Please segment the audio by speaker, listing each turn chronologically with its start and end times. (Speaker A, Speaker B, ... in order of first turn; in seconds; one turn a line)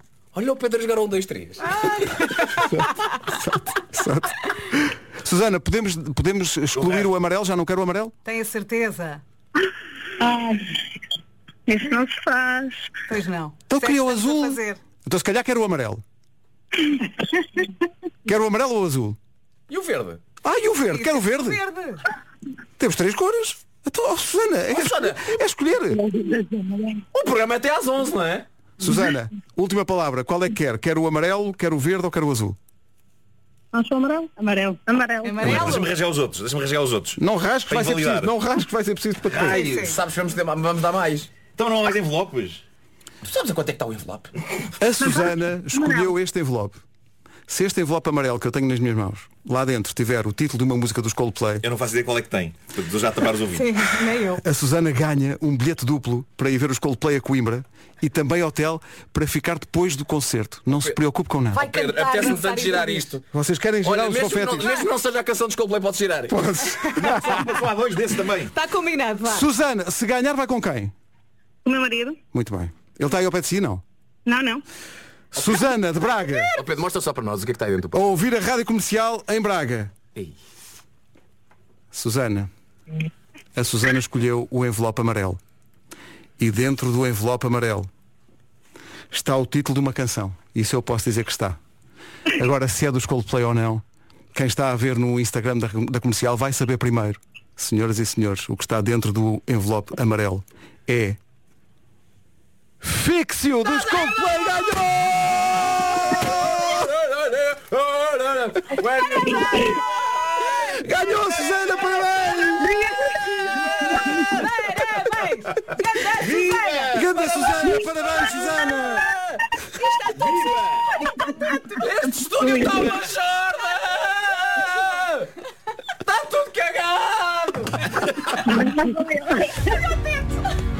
Speaker A: 0.3-2.6
Speaker B: 1.6-3.0
Speaker C: 2.7-8.1
Speaker D: 6.8-7.1
Speaker B: 8.2-9.2
Speaker E: 10.2-11.0
Speaker E: 11.7-12.9
Speaker B: 13.1-14.8
Speaker C: 13.7-16.0
Speaker C: 18.2-19.2
Speaker A: 19.7-20.2
Speaker C: 20.4-21.6
Speaker B: 20.9-22.0
Speaker C: 22.8-26.0
Speaker A: 24.7-25.4
Speaker E: 25.9-27.0
Speaker A: 27.1-28.5
Speaker C: 28.8-32.6
Speaker E: 33.7-35.6
Speaker B: 35.2-35.9
Speaker D: 35.4-37.2
Speaker C: 37.2-39.6
Speaker D: 37.7-38.3
Speaker A: 39.3-41.3
Speaker D: 39.3-39.6
Speaker B: 39.5-40.0
Speaker D: 41.6-42.6
Speaker A: 43.2-44.3
Speaker C: 44.8-46.8
Speaker E: 45.0-46.1
Speaker C: 47.5-51.6
Speaker D: 51.6-53.7
Speaker B: 53.5-54.4
Speaker C: 54.4-61.7
Speaker B: 61.5-63.1
Speaker A: 61.6-63.2
Speaker C: 63.3-64.8
Speaker A: 63.8-66.3
Speaker C: 66.3-67.5
Speaker D: 67.0-68.5
Speaker B: 68.5-69.5
Speaker C: 69.2-70.9
Speaker E: 71.6-72.2
Speaker C: 72.3-73.8
Speaker E: 74.2-74.6
Speaker C: 75.3-76.6
Speaker A: 75.3-75.6
Speaker A: 76.5-78.0
Speaker C: 77.9-79.9
Speaker C: 81.9-82.5
Speaker C: 83.5-85.4
Speaker C: 86.4-87.9
Speaker C: 89.1-91.6
Speaker C: 92.3-101.2
Speaker C: 102.8-106.5
Speaker A: 103.8-112.6
Speaker C: 110.4-112.7
Speaker B: 112.6-116.9
Speaker A: 113.2-114.5
Speaker A: 116.2-119.4
Speaker D: 116.2-117.0
Speaker C: 116.9-119.1
Speaker B: 119.7-121.9
Speaker D: 120.2-120.6
Speaker A: 121.8-125.3
Speaker E: 122.4-122.9
Speaker A: 126.0-128.6
Speaker E: 128.4-129.7
Speaker B: 129.5-130.6